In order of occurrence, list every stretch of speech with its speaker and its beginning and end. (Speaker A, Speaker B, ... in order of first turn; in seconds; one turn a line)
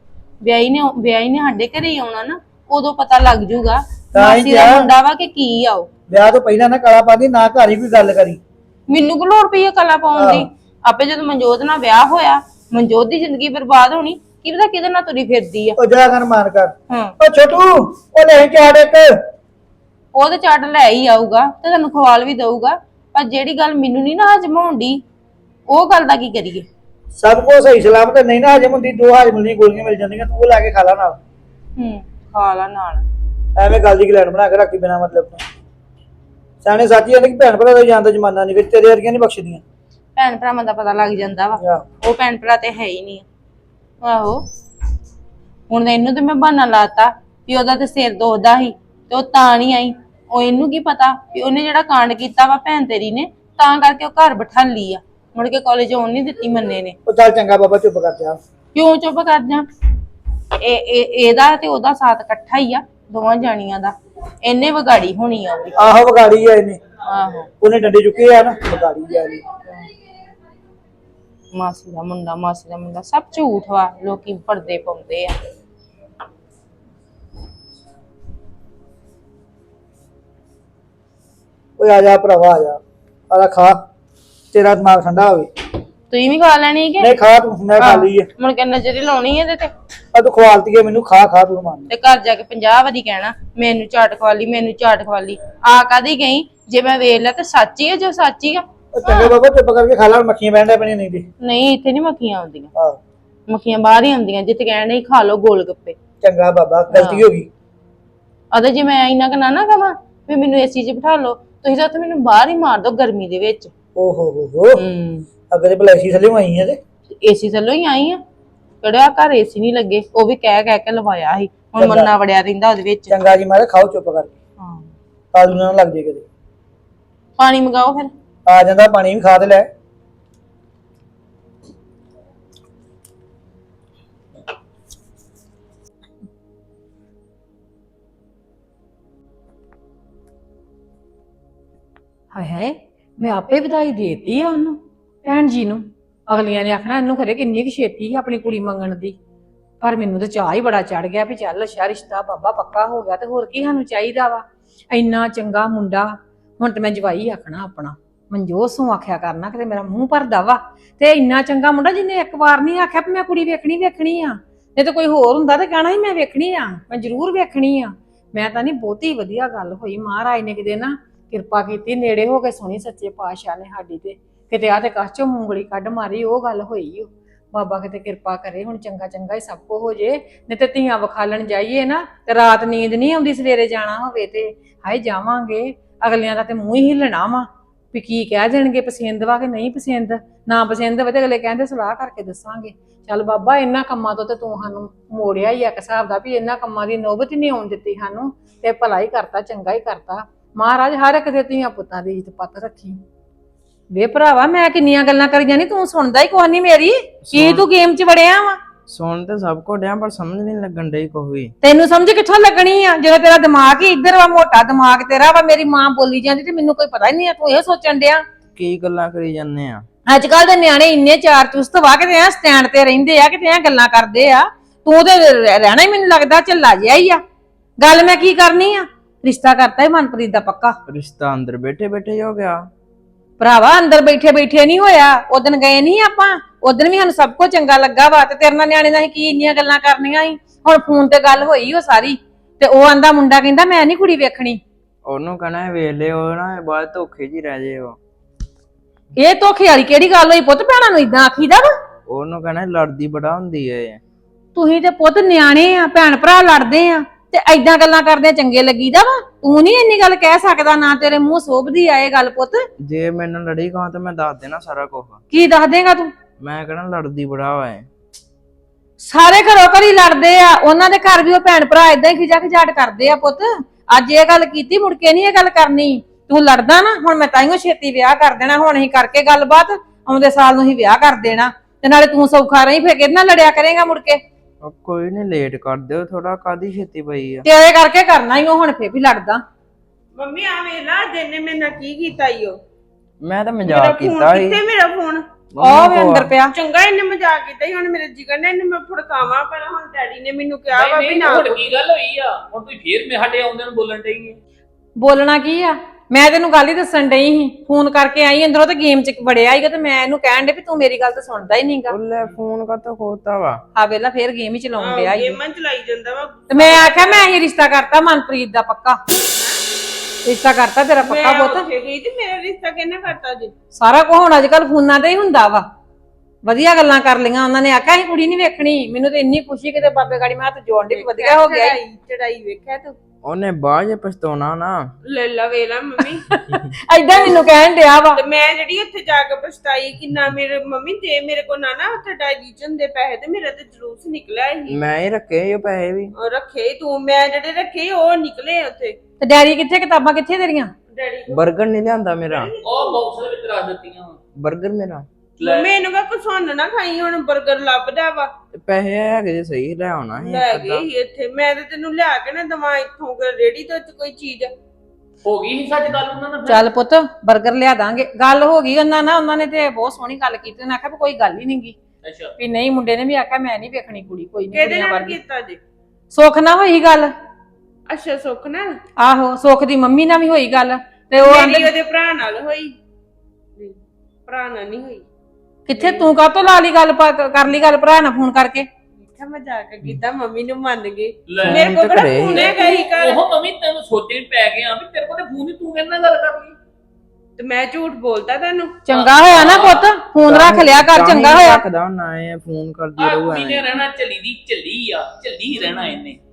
Speaker A: 0.4-5.9
Speaker B: 4.1-4.9
Speaker B: 6.1-8.4
Speaker A: 8.9-15.8
Speaker B: 10.2-10.4
Speaker B: 15.8-19.1
Speaker A: 16.9-17.1
Speaker A: 20.1-25.0
Speaker A: 25.7-26.6
Speaker B: 27.2-31.2
Speaker A: 31.8-33.0
Speaker B: 33.5-35.4
Speaker B: 36.6-39.6
Speaker A: 40.1-43.2
Speaker A: 44.0-44.4
Speaker A: 45.7-57.0
Speaker B: 57.0-58.4
Speaker A: 58.7-59.7
Speaker A: 60.6-65.7
Speaker B: 65.8-66.8
Speaker A: 67.0-67.5
Speaker B: 67.6-69.4
Speaker A: 71.5-75.3
Speaker B: 81.8-83.8
Speaker B: 84.5-85.5
Speaker A: 86.1-87.1
Speaker B: 87.0-88.3
Speaker A: 87.8-89.7
Speaker B: 90.1-91.9
Speaker A: 91.9-99.3
Speaker B: 98.9-101.2
Speaker A: 101.4-102.7
Speaker A: 103.5-106.0
Speaker B: 106.2-107.5
Speaker A: 106.9-107.2
Speaker A: 108.5-113.7
Speaker B: 113.9-114.8
Speaker A: 114.8-115.2
Speaker B: 115.5-116.8
Speaker A: 117.2-118.2
Speaker A: 118.8-123.2
Speaker B: 121.8-122.1
Speaker B: 123.1-124.3
Speaker A: 124.6-124.9
Speaker B: 125.3-126.2
Speaker A: 127.4-128.1
Speaker B: 128.4-129.7
Speaker C: 142.3-149.2
Speaker C: 149.8-156.1
Speaker C: 156.6-203.0
Speaker C: 203.9-208.6
Speaker D: 207.3-207.7
Speaker D: 208.9-211.5
Speaker C: 211.6-218.2
Speaker D: 218.5-219.8
Speaker C: 220.1-227.2
Speaker C: 227.8-230.8
Speaker D: 230.9-232.7
Speaker C: 233.4-244.6
Speaker D: 245.0-248.0
Speaker C: 249.2-251.7
Speaker D: 252.1-254.0
Speaker C: 254.5-262.6
Speaker D: 262.8-265.2
Speaker C: 265.3-266.1
Speaker D: 266.4-267.9
Speaker C: 269.0-284.2
Speaker D: 284.6-287.4
Speaker C: 287.4-289.4
Speaker E: 290.2-292.6
Speaker D: 293.2-294.6
Speaker E: 293.6-295.2
Speaker D: 295.5-296.3
Speaker C: 295.6-296.5
Speaker E: 296.5-301.6
Speaker F: 300.7-304.4
Speaker C: 305.0-312.0
Speaker D: 311.9-313.6
Speaker C: 313.7-315.4
Speaker E: 314.8-317.3
Speaker C: 316.5-319.0
Speaker E: 319.3-319.6
Speaker C: 320.2-321.7
Speaker E: 321.0-323.5
Speaker C: 323.8-325.6
Speaker C: 326.4-331.8
Speaker E: 330.9-332.9
Speaker D: 333.2-334.9
Speaker E: 335.1-336.2
Speaker C: 336.3-338.2
Speaker E: 337.1-337.6
Speaker E: 338.1-344.8
Speaker D: 344.7-346.1
Speaker E: 346.2-349.0
Speaker C: 349.2-350.7
Speaker E: 350.9-351.4
Speaker D: 351.3-352.5
Speaker E: 352.2-353.0
Speaker F: 352.6-354.2
Speaker D: 354.3-355.1
Speaker F: 355.4-355.7
Speaker E: 355.4-358.3
Speaker D: 358.5-360.9
Speaker E: 360.2-364.5
Speaker F: 365.2-366.6
Speaker C: 366.4-371.8
Speaker F: 372.0-372.3
Speaker C: 372.4-375.1
Speaker E: 374.5-375.6
Speaker C: 376.1-377.1
Speaker E: 377.9-378.8
Speaker C: 379.0-381.7
Speaker E: 381.1-382.7
Speaker E: 383.6-385.0
Speaker C: 385.7-388.7
Speaker E: 385.7-386.1
Speaker E: 389.0-393.3
Speaker F: 391.3-391.5
Speaker D: 391.4-392.7
Speaker F: 392.4-396.6
Speaker E: 397.4-398.8
Speaker C: 398.9-401.6
Speaker F: 398.9-400.0
Speaker D: 400.2-403.7
Speaker F: 403.0-406.2